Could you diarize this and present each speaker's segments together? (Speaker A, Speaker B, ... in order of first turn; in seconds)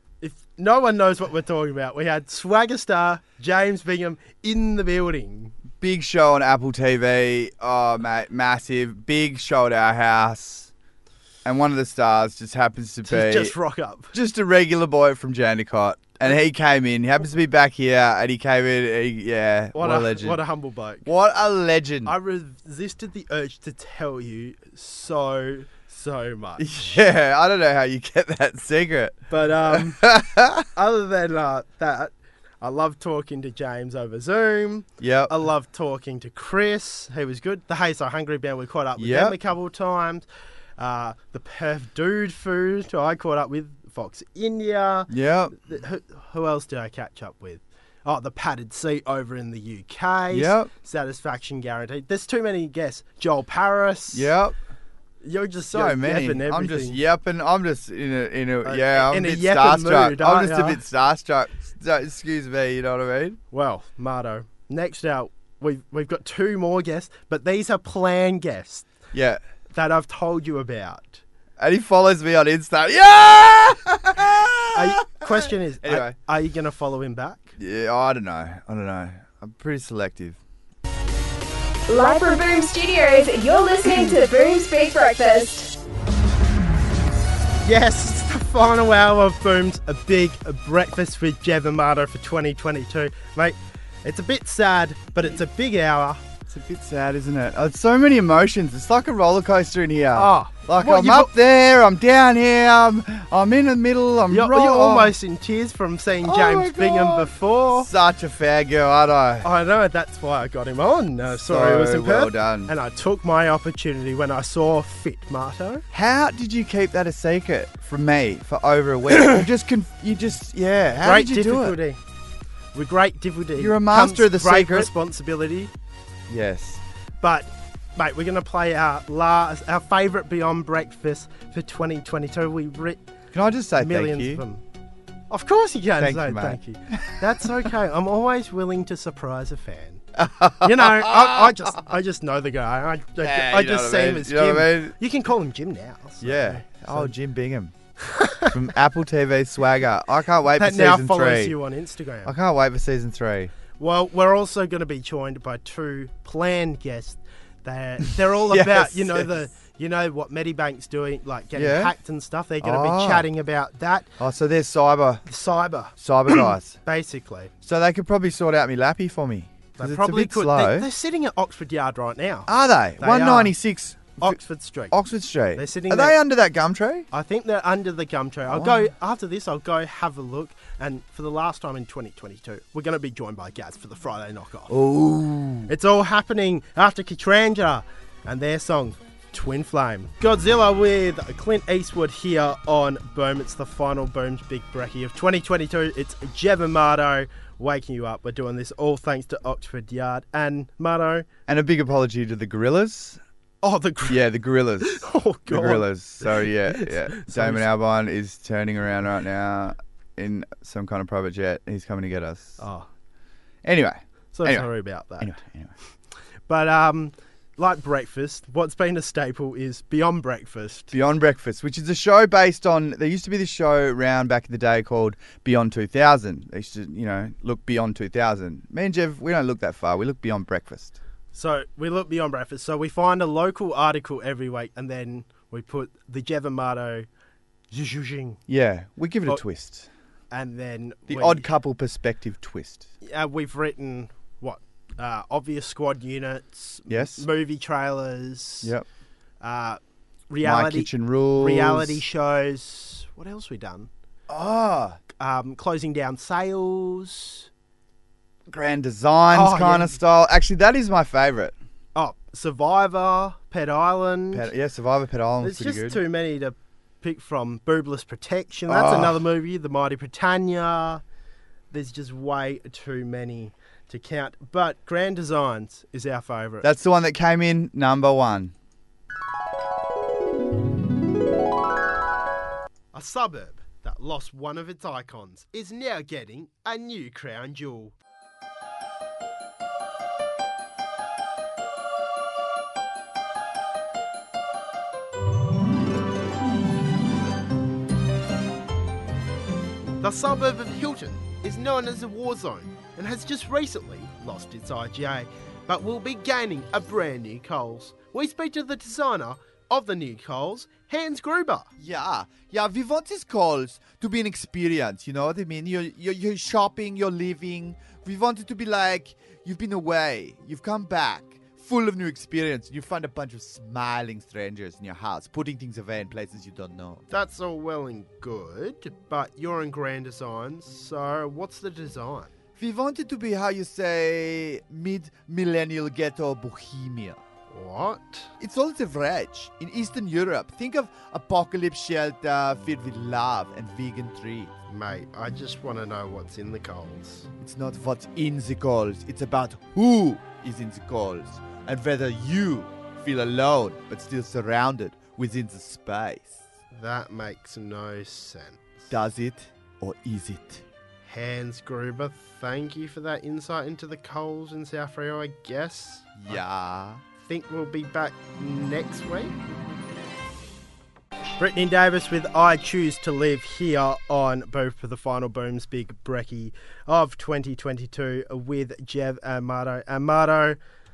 Speaker A: 0.2-5.5, 13.0-14.1, 19.7-21.1, 22.0-26.8, 29.3-30.1, 30.7-40.3, 40.8-54.3, 55.2-57.0, 58.6-60.8, 63.5-68.9, 69.7-71.2, 74.7-77.5, 87.6-96.2, 100.1-101.3, 104.3-107.9, 109.4-115.8, 120.9-122.0, 122.7-125.7, 127.2-133.0, 133.8-134.6, 135.3-140.0, 140.6-147.1, 148.0-148.5, 150.6-152.3, 153.8-164.1, 165.2-167.5, 169.8-173.5, 174.2-174.9, 175.6-176.2, 177.1-184.7, 185.7-201.3, 203.6-207.7, 212.6-212.8, 214.3-215.4, 216.5-220.9, 231.3-237.1, 237.7-238.4, 240.3-241.5, 243.0-248.7, 249.4-253.9, 255.2-257.5, 259.3-260.0, 261.9-264.5, 265.4-271.0, 271.7-276.6, 282.9-287.9, 300.0-311.7, 327.1-332.3, 337.5-338.3, 344.7-347.3, 356.7-358.9, 361.1-366.4, 367.2-369.4, 371.4-380.6
Speaker B: 5.8-10.7, 11.4-13.5, 14.1-20.4, 21.0-22.1, 26.6-30.6, 35.0-35.3, 39.0-39.4, 45.1-45.5, 50.3-50.7, 54.1-54.5, 55.7-63.4, 69.1-69.4, 71.6-76.2, 77.6-80.4, 96.5-105.1, 106.2-109.5, 111.3-112.7, 115.9-121.8, 123.6-124.9, 126.3-126.8, 133.3-134.4, 136.0-137.2, 140.2-141.5, 143.2-144.9, 146.2-147.7, 148.4-151.5, 152.2-153.5, 158.5-159.3, 161.5-161.9, 162.6-163.3, 164.2-165.2, 166.0-166.8, 167.6-170.9, 172.5-174.4, 174.9-177.1, 178.5-178.8, 184.7-185.7, 201.5-203.2, 204.1-212.6, 213.6-215.7, 220.9-231.0, 238.5-239.9, 241.1-242.9, 246.9-247.2, 250.4-252.0, 254.3-255.0, 258.5-261.5, 264.3-266.0, 268.7-269.2, 276.6-278.5, 311.8-327.0, 332.6-337.2, 338.4-344.5, 347.4-356.5, 358.9-360.6, 366.2-367.0
Speaker C: 81.9-85.7